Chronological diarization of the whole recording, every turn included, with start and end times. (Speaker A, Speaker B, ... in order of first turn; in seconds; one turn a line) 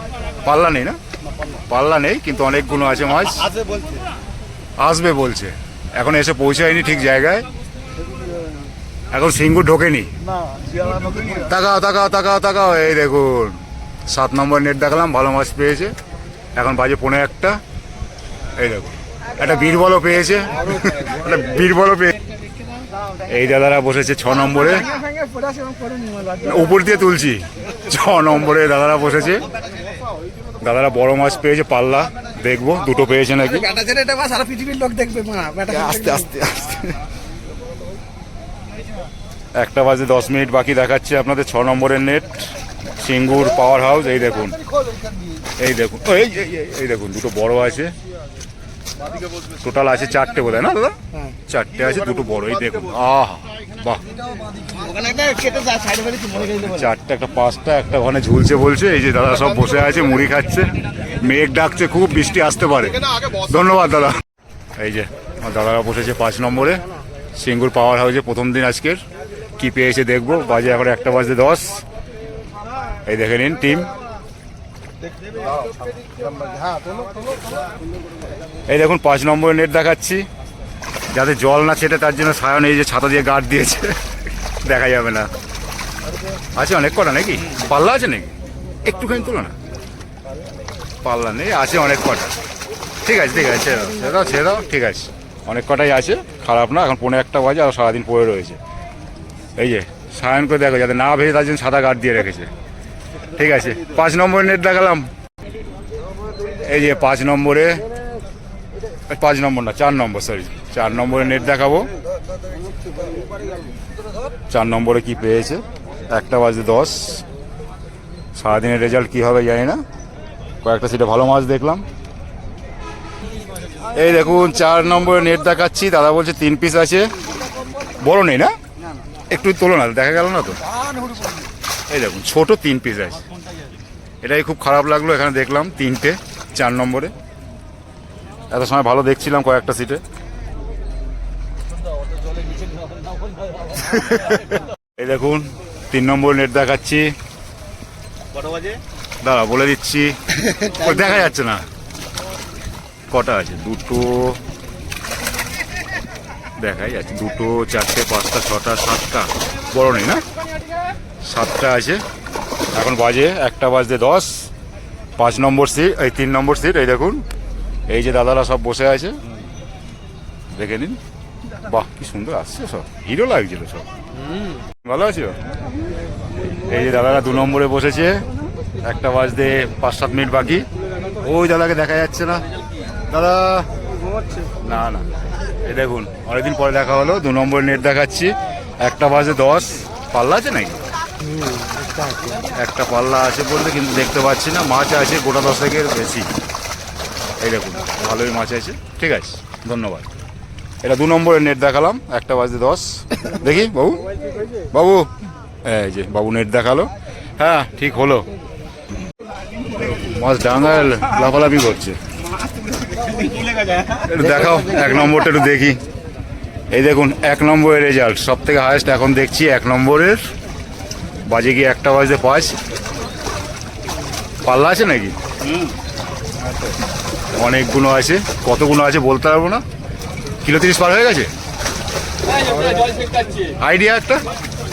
Speaker A: 0.4-1.0
Speaker A: 1.5-3.5
Speaker A: 4.8-7.5
Speaker A: 9.1-10.1
Speaker A: 11.3-15.9
Speaker A: 16.5-17.6
Speaker A: 18.6-22.2
Speaker A: 23.2-25.0
Speaker B: 25.0-26.4
Speaker A: 26.4-29.5
Speaker A: 30.6-33.9
Speaker B: 33.8-35.7
Speaker A: 35.6-37.0
Speaker A: 39.5-44.6
Speaker A: 45.6-47.9
Speaker A: 49.6-54.0
Speaker B: 54.7-56.3
Speaker A: 56.2-64.2
Speaker A: 64.8-69.0
Speaker A: 69.6-71.8
Speaker A: 73.0-73.9
Speaker B: 76.4-77.0
Speaker A: 78.7-80.2
Speaker A: 81.1-84.0
Speaker A: 84.6-85.3
Speaker A: 86.5-89.5
Speaker A: 91.0-92.3
Speaker A: 93.0-98.6
Speaker A: 99.5-102.5
Speaker A: 103.3-105.1
Speaker A: 106.6-107.8
Speaker A: 109.1-111.9
Speaker A: 114.5-117.2
Speaker A: 118.3-119.8
Speaker A: 120.6-121.8
Speaker A: 123.9-127.1
Speaker A: 128.0-128.5
Speaker A: 129.3-130.6
Speaker A: 131.9-133.2
Speaker A: 134.2-137.1
Speaker A: 138.5-140.0
Speaker A: 143.7-147.1
Speaker B: 148.4-148.8
Speaker A: 149.2-151.6
Speaker A: 153.1-154.4
Speaker A: 156.6-160.2
Speaker A: 161.2-162.0
Speaker A: 162.7-164.5
Speaker A: 165.2-167.2
Speaker A: 167.9-169.2
Speaker A: 170.5-171.0
Speaker A: 171.6-173.9
Speaker A: 174.8-175.4
Speaker A: 176.5-178.2
Speaker A: 178.8-180.7
Speaker A: 181.2-182.4
Speaker A: 183.1-183.7
Speaker A: 184.6-185.1
Speaker A: 185.6-190.9
Speaker B: 191.6-192.2
Speaker A: 192.5-196.3
Speaker A: 197.4-200.1
Speaker A: 200.8-204.1
Speaker A: 204.7-205.1
Speaker A: 205.6-208.3
Speaker A: 209.7-212.0
Speaker A: 214.0-215.8
Speaker A: 216.7-220.2
Speaker A: 221.3-222.6
Speaker A: 224.4-225.2
Speaker A: 227.3-229.6
Speaker A: 230.4-231.3
Speaker A: 233.5-234.2